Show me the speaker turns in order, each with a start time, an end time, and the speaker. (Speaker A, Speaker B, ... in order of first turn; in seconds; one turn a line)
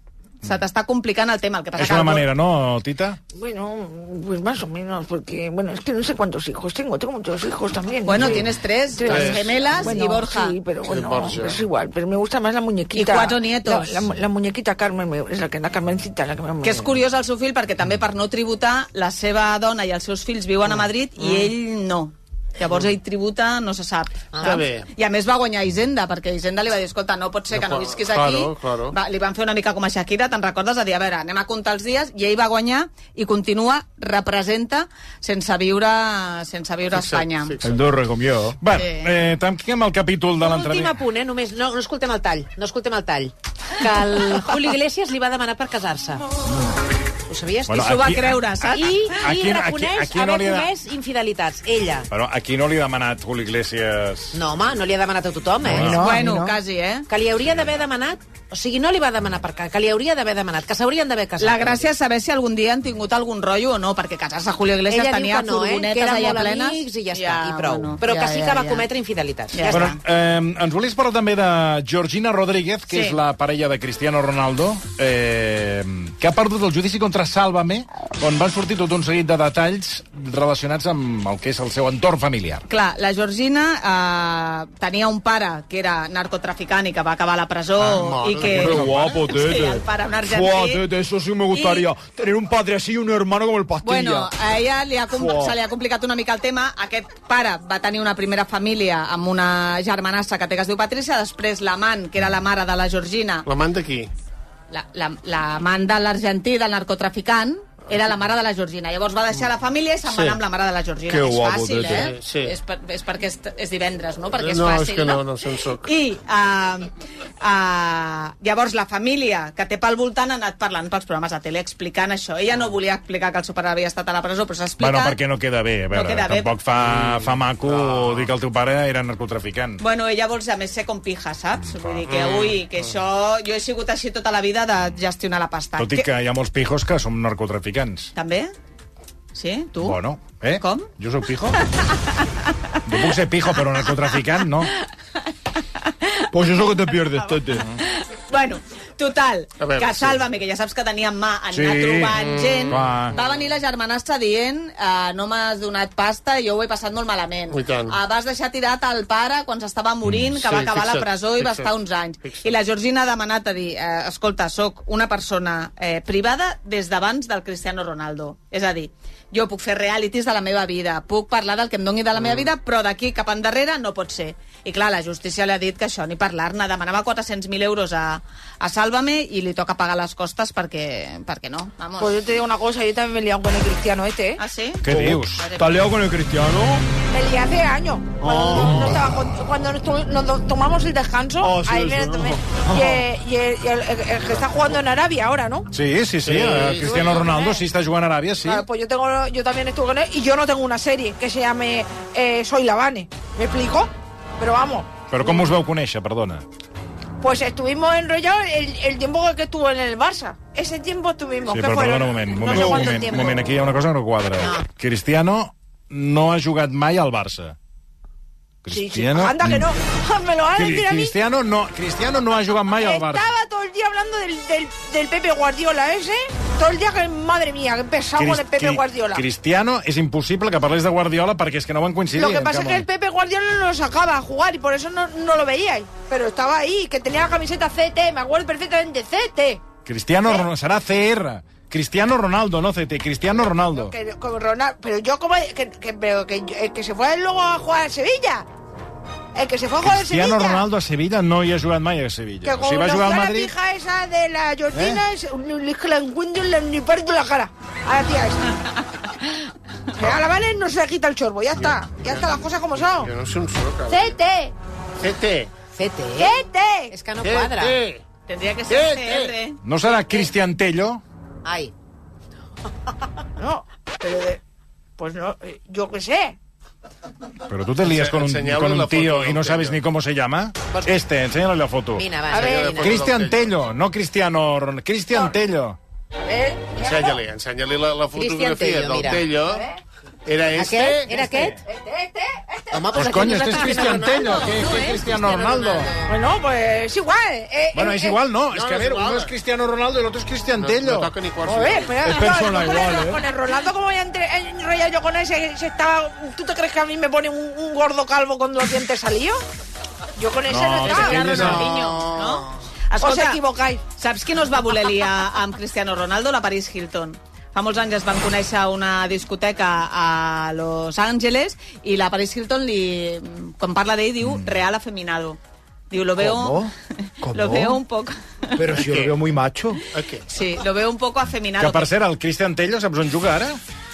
Speaker A: 0.4-2.3
Speaker B: 1.8-3.2
Speaker C: 3.4-16.9
Speaker A: 8.1-10.6
Speaker D: 8.2-8.5
Speaker D: 9.1-9.7
Speaker D: 10.9-11.6
Speaker A: 12.9-14.0
Speaker A: 16.6-37.6
Speaker E: 24.3-24.6
Speaker D: 24.4-24.9
Speaker D: 27.5-29.0
Speaker D: 36.9-37.8
Speaker F: 37.6-38.6
Speaker B: 38.6-41.0
Speaker A: 38.7-39.1
Speaker E: 40.4-46.3
Speaker E: 47.3-47.9
Speaker B: 47.7-48.4
Speaker A: 47.7-48.9
Speaker E: 48.7-52.1
Speaker B: 49.2-50.7
Speaker B: 52.1-54.4
Speaker E: 54.3-56.4
Speaker B: 55.6-56.2
Speaker A: 55.9-57.1
Speaker F: 55.9-56.3
Speaker E: 57.1-61.9
Speaker A: 61.4-68.9
Speaker E: 64.9-70.0
Speaker A: 69.5-70.0
Speaker B: 69.7-82.7
Speaker A: 72.9-73.2
Speaker A: 82.7-90.8
Speaker D: 87.8-89.2
Speaker F: 88.4-94.3
Speaker A: 91.5-91.9
Speaker A: 93.8-103.5
Speaker F: 95.1-95.6
Speaker D: 103.5-104.1
Speaker A: 104.7-115.2
Speaker D: 110.1-110.4
Speaker F: 111.1-112.1
Speaker D: 111.9-112.5
Speaker D: 114.4-115.9
Speaker A: 115.8-125.2
Speaker B: 124.8-129.8
Speaker A: 125.9-126.5
Speaker D: 126.9-128.3
Speaker A: 129.8-136.1
Speaker B: 131.7-132.0
Speaker D: 132.1-132.9
Speaker B: 135.8-138.1
Speaker A: 138.2-138.5
Speaker A: 139.3-140.0
Speaker B: 139.8-141.6
Speaker A: 140.6-140.9
Speaker A: 141.8-142.2
Speaker B: 142.8-144.7
Speaker A: 145.8-182.2
Speaker F: 146.3-147.7
Speaker D: 149.6-150.2
Speaker B: 151.5-152.2
Speaker D: 152.1-153.3
Speaker B: 152.7-153.2
Speaker D: 157.5-158.0
Speaker D: 160.4-161.7
Speaker D: 162.2-162.5
Speaker D: 172.2-172.5
Speaker C: 182.0-184.4
Speaker A: 184.4-185.8
Speaker B: 184.8-185.5
Speaker F: 184.9-186.9
Speaker C: 187.1-195.7
Speaker F: 188.2-189.1
Speaker F: 191.4-193.1
Speaker B: 195.7-198.7
Speaker D: 196.2-197.2
Speaker C: 197.1-197.6
Speaker C: 198.4-205.5
Speaker B: 205.1-206.4
Speaker C: 207.2-213.5
Speaker B: 211.5-217.6
Speaker F: 212.5-213.2
Speaker B: 218.6-219.7
Speaker C: 218.7-221.2
Speaker B: 220.5-223.3
Speaker C: 222.7-229.2
Speaker B: 228.2-232.9
Speaker C: 232.1-239.6
Speaker B: 239.8-243.9
Speaker C: 243.6-248.5
Speaker C: 249.3-250.7
Speaker B: 249.8-253.5
Speaker C: 252.4-258.6
Speaker B: 254.7-255.1
Speaker C: 260.0-263.1
Speaker D: 261.6-264.1
Speaker C: 263.9-264.5
Speaker D: 265.0-265.5
Speaker E: 265.7-267.8
Speaker C: 266.2-266.9
Speaker D: 267.2-268.0
Speaker A: 268.3-269.6
Speaker D: 268.7-269.3
Speaker B: 269.6-271.0
Speaker E: 271.4-271.7
Speaker C: 273.4-274.4
Speaker C: 275.0-276.4
Speaker B: 277.5-282.1
Speaker D: 277.8-279.8
Speaker E: 282.0-282.9
Speaker C: 282.3-282.8
Speaker D: 282.4-283.5
Speaker B: 282.8-285.8
Speaker C: 286.3-287.2
Speaker D: 286.8-289.7
Speaker E: 288.1-289.2
Speaker D: 290.3-291.4
Speaker E: 290.6-291.6
Speaker C: 291.6-294.4
Speaker E: 292.7-296.1
Speaker B: 292.9-295.9
Speaker C: 296.1-298.2
Speaker B: 297.7-301.1
Speaker D: 298.5-299.3
Speaker D: 300.6-302.1
Speaker C: 301.5-309.4
Speaker F: 302.0-303.3
Speaker C: 310.2-311.5
Speaker B: 310.5-311.9
Speaker A: 310.9-313.4
Speaker D: 311.3-312.5
Speaker C: 313.0-313.8
Speaker A: 314.0-325.4
Speaker A: 325.9-326.7
Speaker F: 326.2-327.8
Speaker A: 327.3-328.6
Speaker F: 328.6-329.8
Speaker D: 328.8-329.2
Speaker D: 329.9-330.2
Speaker A: 330.3-331.9
Speaker B: 331.6-333.6